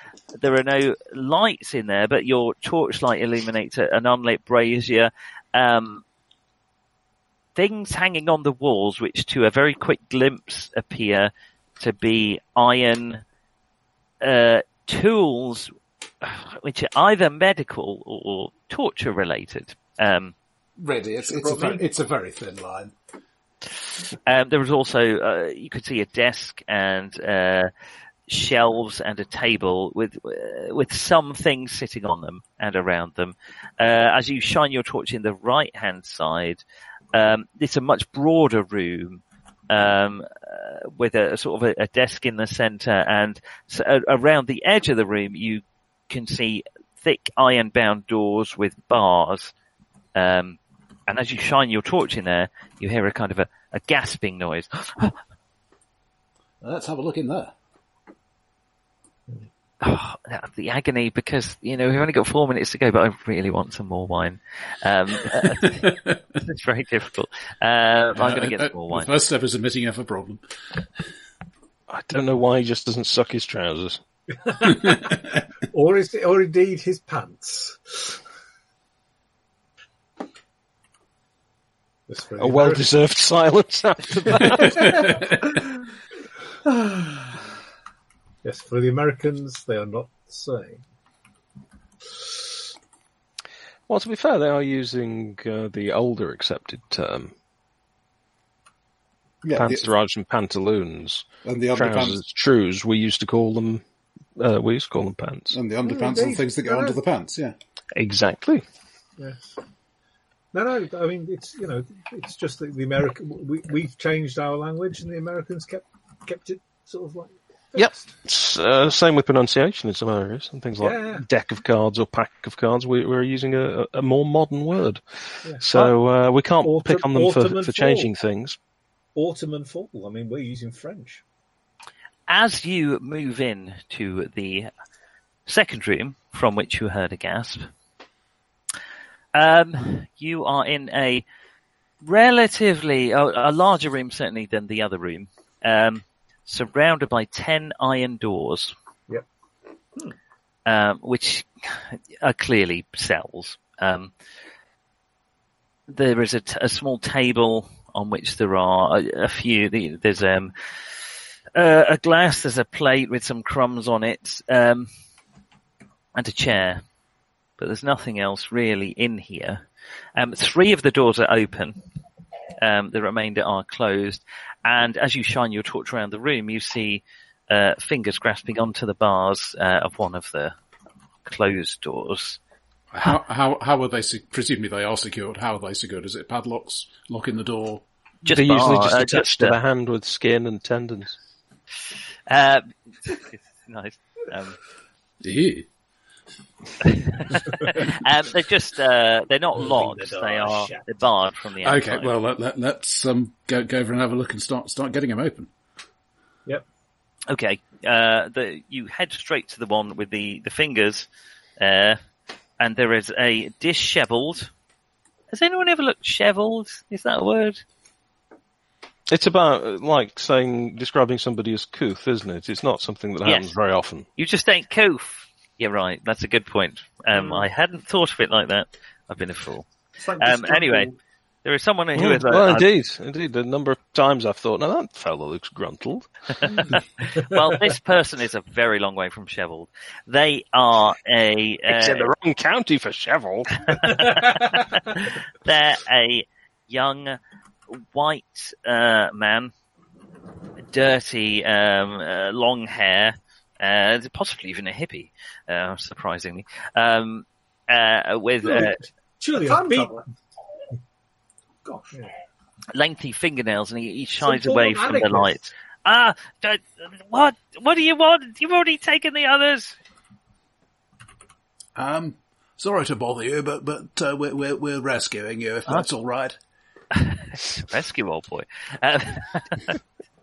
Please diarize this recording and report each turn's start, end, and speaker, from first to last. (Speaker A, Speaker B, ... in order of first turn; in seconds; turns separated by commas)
Speaker A: 0.4-6.0, Speaker A: 7.6-13.2, Speaker A: 14.2-20.4, Speaker B: 20.8-22.9, Speaker C: 21.2-21.8, Speaker A: 24.1-27.7, Speaker A: 28.3-36.6, Speaker A: 37.1-49.5, Speaker A: 50.1-55.2, Speaker B: 56.6-57.5, Speaker A: 59.8-69.1, Speaker B: 65.6-66.2, Speaker B: 68.2-70.4, Speaker D: 71.9-74.0, Speaker E: 74.4-75.2, Speaker E: 75.7-78.2, Speaker E: 82.1-82.9, Speaker D: 82.4-85.2, Speaker E: 84.3-84.8, Speaker E: 86.7-87.0, Speaker E: 88.4-90.8, Speaker D: 93.9-97.3, Speaker B: 99.4-99.9, Speaker D: 99.5-103.8, Speaker B: 101.4-102.2, Speaker D: 104.4-105.6, Speaker B: 105.5-107.5, Speaker E: 105.8-107.0, Speaker D: 108.0-108.6, Speaker E: 109.2-109.6, Speaker E: 110.5-118.1, Speaker D: 117.8-128.6, Speaker E: 120.8-121.3, Speaker E: 125.4-126.0, Speaker E: 126.6-128.1, Speaker E: 129.2-131.2, Speaker A: 132.3-134.7, Speaker A: 135.5-137.7, Speaker A: 139.3-141.2, Speaker A: 142.0-148.7, Speaker A: 150.7-154.1, Speaker A: 155.9-160.5, Speaker A: 161.6-164.9, Speaker A: 166.2-166.8, Speaker A: 167.6-171.8, Speaker A: 172.6-180.6, Speaker A: 181.2-182.4, Speaker B: 182.9-187.8, Speaker A: 188.2-189.6, Speaker D: 188.3-191.2, Speaker A: 192.3-194.6, Speaker B: 195.2-195.7, Speaker A: 196.8-202.1, Speaker E: 199.6-200.8, Speaker B: 201.6-205.5, Speaker A: 207.3-211.1, Speaker A: 211.6-212.0, Speaker A: 212.6-214.5, Speaker A: 215.3-217.6, Speaker D: 219.1-224.1, Speaker A: 223.2-223.6, Speaker A: 224.2-229.7, Speaker C: 227.1-227.5, Speaker C: 230.0-230.9, Speaker A: 230.2-230.9, Speaker A: 231.4-232.7, Speaker D: 231.9-236.1, Speaker A: 236.4-242.1, Speaker D: 241.7-243.9, Speaker A: 243.7-247.2, Speaker A: 247.7-249.5, Speaker A: 250.7-258.8, Speaker E: 258.4-260.0, Speaker C: 259.4-260.0, Speaker C: 261.6-261.9, Speaker A: 262.7-269.8, Speaker E: 264.2-265.3, Speaker B: 271.8-276.4, Speaker A: 276.9-279.8